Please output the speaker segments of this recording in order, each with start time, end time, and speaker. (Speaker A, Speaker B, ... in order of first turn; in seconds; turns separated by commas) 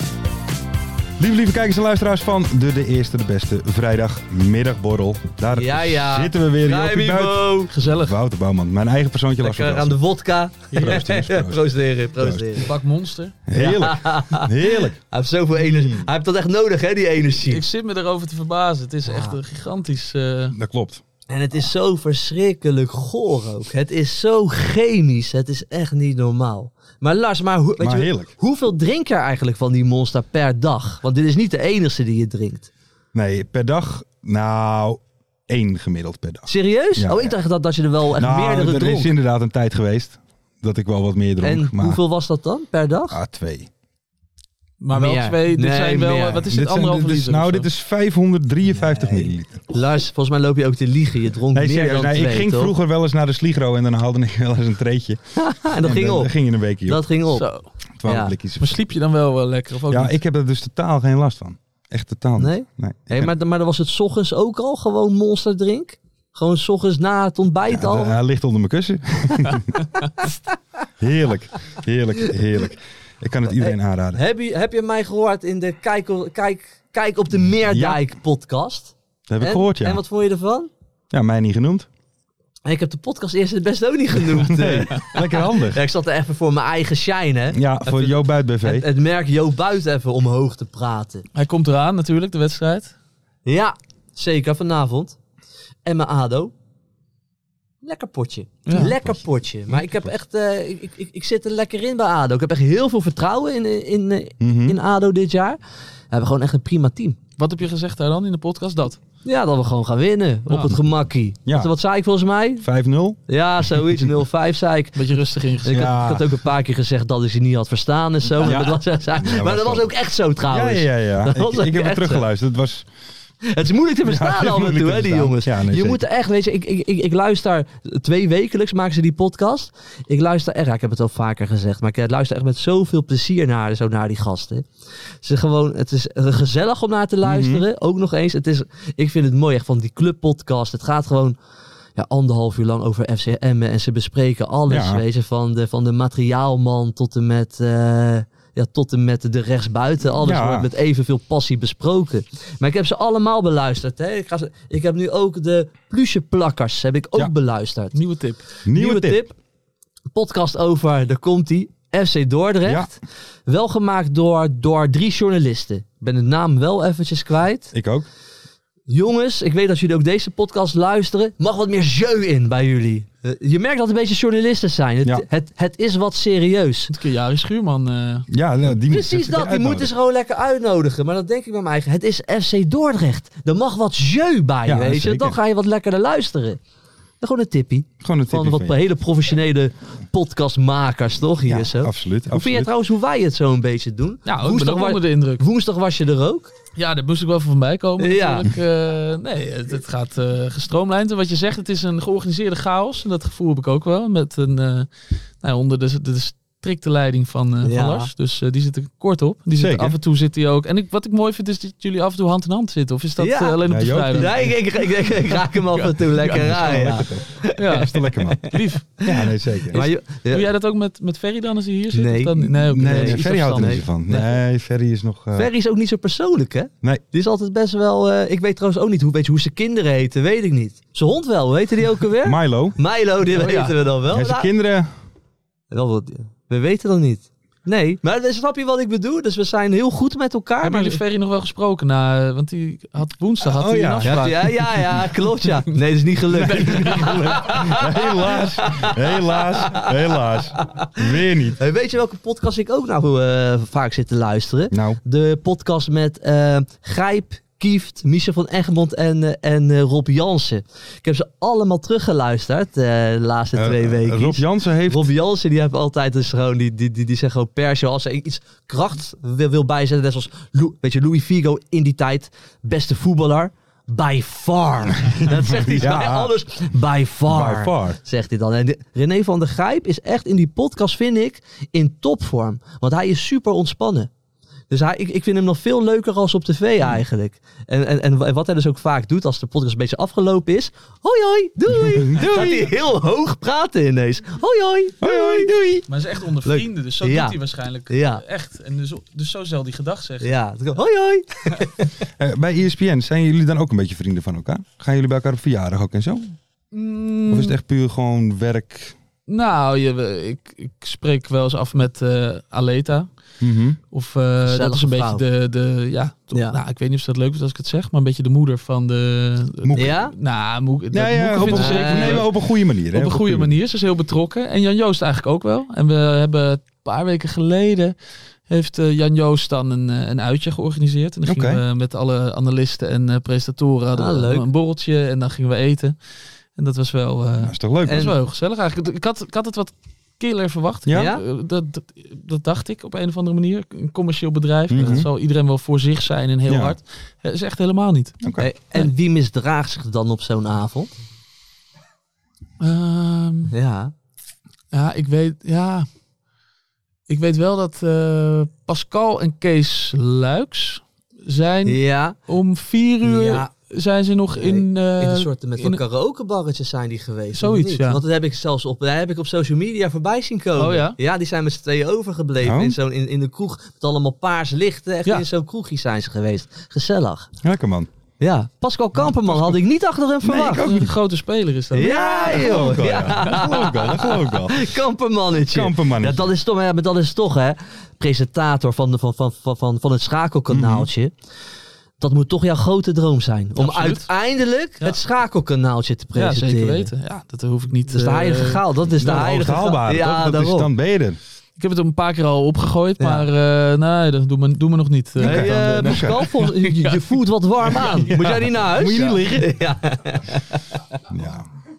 Speaker A: 1.2-10.0, Speaker B: 5.5-7.7, Speaker C: 7.7-8.2, Speaker B: 9.4-12.7, Speaker A: 10.7-12.7, Speaker C: 12.6-13.4, Speaker A: 13.5-15.0, Speaker B: 13.5-17.6, Speaker A: 15.6-16.1, Speaker C: 17.5-20.6, Speaker B: 19.1-19.4, Speaker A: 20.5-21.0, Speaker B: 21.3-32.7, Speaker A: 27.8-28.3, Speaker A: 33.1-37.4, Speaker B: 36.5-39.1, Speaker A: 38.1-42.0, Speaker B: 41.4-43.2, Speaker A: 43.1-43.7, Speaker C: 44.8-47.7, Speaker B: 44.9-46.4, Speaker A: 46.5-49.6, Speaker B: 48.7-52.8, Speaker A: 51.5-55.2, Speaker B: 55.4-56.3, Speaker A: 55.8-57.1, Speaker B: 56.9-57.5, Speaker C: 57.3-57.7, Speaker A: 58.0-58.8, Speaker B: 58.0-58.3, Speaker C: 58.6-60.2, Speaker A: 59.9-63.3, Speaker B: 62.4-68.2, Speaker A: 67.7-69.8, Speaker A: 71.0-74.2, Speaker B: 73.5-80.7, Speaker A: 77.7-78.0, Speaker A: 79.3-80.0, Speaker A: 81.1-81.9, Speaker B: 82.7-91.3, Speaker A: 84.3-85.8, Speaker A: 87.5-88.9, Speaker C: 91.3-92.9, Speaker B: 93.5-95.2, Speaker B: 95.8-96.5, Speaker B: 97.8-105.6, Speaker C: 98.7-98.9, Speaker A: 98.8-100.1, Speaker A: 104.4-104.8, Speaker B: 106.1-107.2, Speaker C: 107.4-109.0, Speaker B: 109.2-112.7, Speaker C: 110.5-110.8, Speaker A: 111.5-111.7, Speaker A: 112.6-113.2, Speaker B: 113.3-115.0, Speaker A: 113.7-114.1, Speaker C: 115.0-116.0, Speaker B: 115.6-122.2, Speaker A: 115.7-116.4, Speaker A: 118.4-119.9, Speaker A: 120.5-122.9, Speaker B: 123.5-134.7, Speaker A: 124.0-126.0, Speaker B: 135.2-141.4, Speaker A: 137.2-137.7, Speaker B: 142.0-158.0, Speaker A: 144.7-145.0, Speaker A: 150.2-150.7, Speaker C: 157.9-158.4, Speaker A: 158.7-159.2, Speaker B: 158.7-159.3, Speaker B: 160.1-163.0, Speaker A: 162.6-162.9, Speaker B: 163.5-167.7, Speaker A: 167.7-168.1, Speaker B: 168.9-176.9, Speaker C: 176.9-178.3, Speaker A: 178.3-179.9, Speaker B: 178.9-186.6, Speaker A: 184.7-185.4, Speaker B: 187.2-196.5, Speaker A: 188.0-188.8, Speaker A: 191.5-192.7, Speaker C: 194.3-195.5, Speaker C: 196.8-204.9, Speaker B: 198.0-198.4, Speaker C: 205.4-214.6, Speaker B: 207.6-208.1, Speaker A: 209.6-210.0, Speaker B: 213.2-213.6, Speaker A: 213.6-214.6, Speaker B: 214.1-220.5, Speaker C: 215.6-217.1, Speaker A: 216.3-218.5, Speaker C: 217.6-218.9, Speaker A: 219.1-219.8, Speaker C: 219.7-223.8, Speaker B: 221.9-224.2, Speaker A: 222.6-225.5, Speaker B: 225.3-234.5, Speaker A: 232.2-232.8, Speaker C: 233.3-233.8, Speaker A: 234.1-234.9, Speaker B: 235.7-241.0, Speaker C: 240.6-244.6, Speaker A: 243.5-244.7, Speaker B: 244.0-249.9, Speaker A: 246.3-251.6, Speaker C: 246.5-247.6, Speaker B: 250.6-284.1, Speaker A: 254.7-255.0, Speaker A: 263.6-265.1, Speaker A: 275.4-276.4, Speaker A: 277.3-278.0, Speaker B: 284.7-295.5, Speaker A: 291.8-292.5, Speaker C: 292.2-292.7, Speaker A: 295.0-295.9, Speaker C: 295.9-300.3, Speaker B: 296.4-297.4, Speaker B: 297.9-298.2, Speaker B: 300.2-301.9, Speaker A: 302.2-306.4, Speaker C: 306.7-307.6, Speaker A: 307.3-308.9, Speaker C: 309.3-313.1, Speaker A: 313.4-313.8, Speaker C: 313.9-327.9, Speaker B: 314.4-315.2, Speaker A: 319.6-320.0, Speaker B: 319.8-320.1, Speaker A: 320.9-323.5, Speaker B: 321.4-322.2, Speaker C: 328.5-336.0, Speaker A: 331.3-331.6, Speaker B: 333.9-334.5, Speaker C: 336.6-348.2, Speaker A: 337.4-338.1, Speaker B: 337.9-338.1, Speaker A: 340.9-341.1, Speaker B: 340.9-341.2, Speaker A: 344.7-345.1, Speaker A: 346.5-346.8, Speaker A: 348.2-348.5, Speaker B: 348.4-350.9, Speaker C: 352.6-353.5, Speaker B: 353.5-353.9, Speaker C: 354.7-355.9, Speaker C: 357.1-365.8, Speaker B: 361.7-362.2, Speaker B: 363.0-363.5, Speaker B: 364.4-377.3, Speaker C: 367.4-368.0, Speaker C: 370.6-371.0, Speaker A: 372.4-372.8, Speaker A: 377.4-377.9, Speaker B: 378.2-380.6, Speaker A: 379.0-379.6, Speaker A: 380.2-380.9, Speaker C: 380.4-382.8, Speaker A: 381.7-384.7, Speaker B: 381.7-391.1, Speaker A: 385.5-386.3, Speaker A: 390.5-390.9, Speaker B: 392.0-396.9, Speaker C: 393.6-394.1, Speaker C: 396.2-398.6, Speaker B: 397.9-400.7, Speaker A: 399.0-401.2, Speaker C: 401.6-407.1, Speaker B: 403.0-403.3, Speaker A: 405.2-406.3, Speaker B: 405.2-410.8, Speaker A: 407.7-409.6, Speaker A: 411.1-411.5